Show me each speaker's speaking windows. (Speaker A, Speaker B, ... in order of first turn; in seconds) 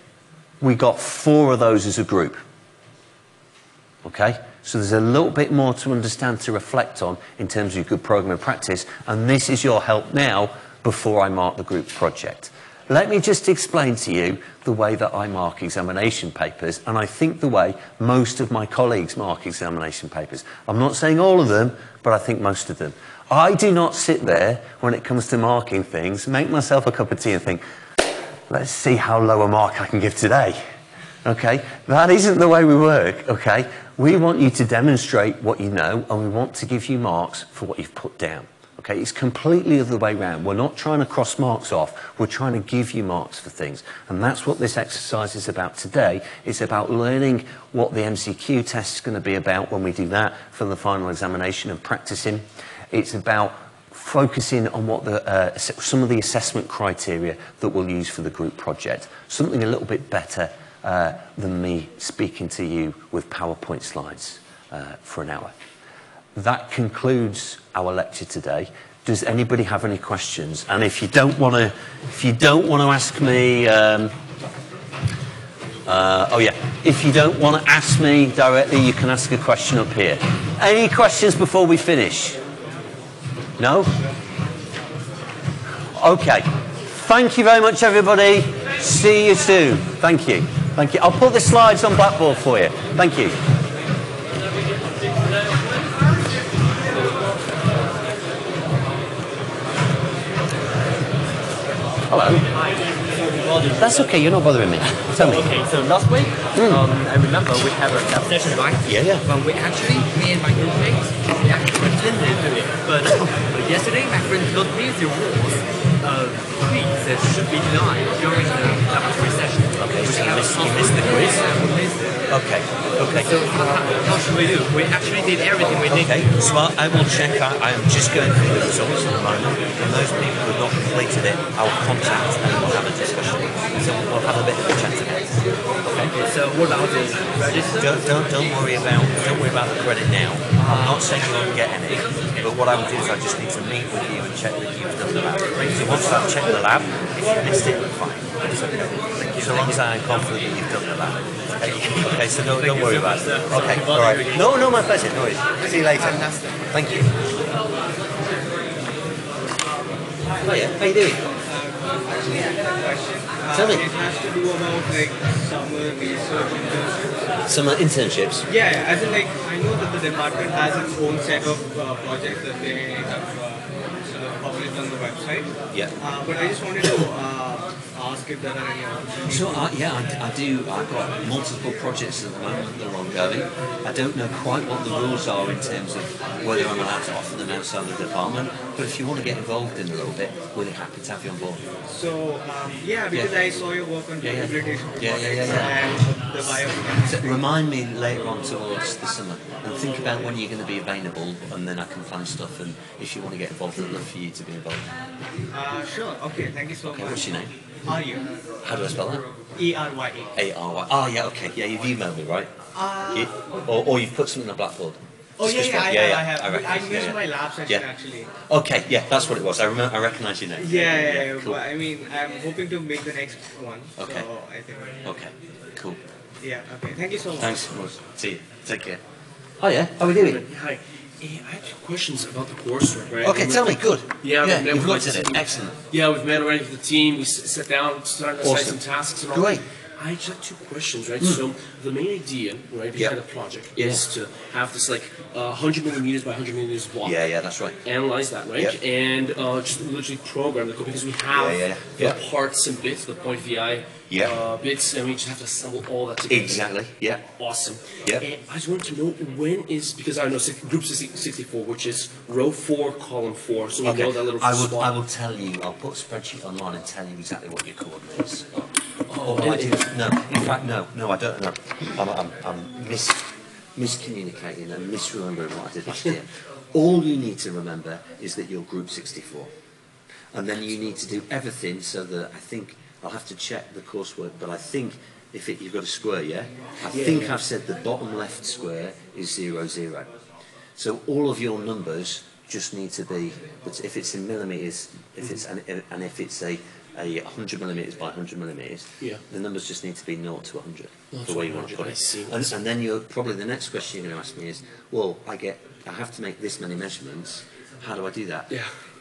Speaker A: 0.6-2.4, 4.0-27.6, 28.5-30.6, 31.2-65.5, 66.3-74.1, 75.9-82.4, 83.6-83.9, 86.0-93.3, 102.1-102.5, 103.8-105.5, 106.5-106.8, 108.8-109.2, 119.8-121.4, 122.3-123.3, 125.9-135.2, 135.8-136.2, 137.5-157.1, 160.4-161.3, 163.5-163.8, 167.5-168.4, 179.3-191.6, 194.2-195.8, 197.0-204.9, 206.8-207.5, 208.6-209.2, 210.3-212.5, 213.1-217.8, 218.5-221.6, 224.0-224.3, 225.0-226.0, 227.4-229.0, 229.6-230.4, 233.2-235.8, 238.4-239.6, 243.7-244.0, 247.0-247.8, 251.3-252.2, 254.1-254.3, 256.3-257.2, 263.8-268.5, 269.1-279.5, 280.3-290.1, 290.8-308.5
Speaker B: 102.5-104.2, 105.0-122.2, 123.0-126.4, 136.0-138.2, 140.6-141.2, 145.7-146.4, 149.1-149.8, 151.6-154.6, 156.0-156.4
Speaker C: 161.4-167.4, 168.4-179.7, 191.9-197.4, 205.5-208.3, 209.5-210.3, 212.7-213.5, 215.4-218.3, 220.6-225.0, 226.4-227.6
Speaker D: 230.0-247.2, 247.8-256.7, 257.3-264.9, 269.1-269.9, 286.9-287.4, 301.1-302.6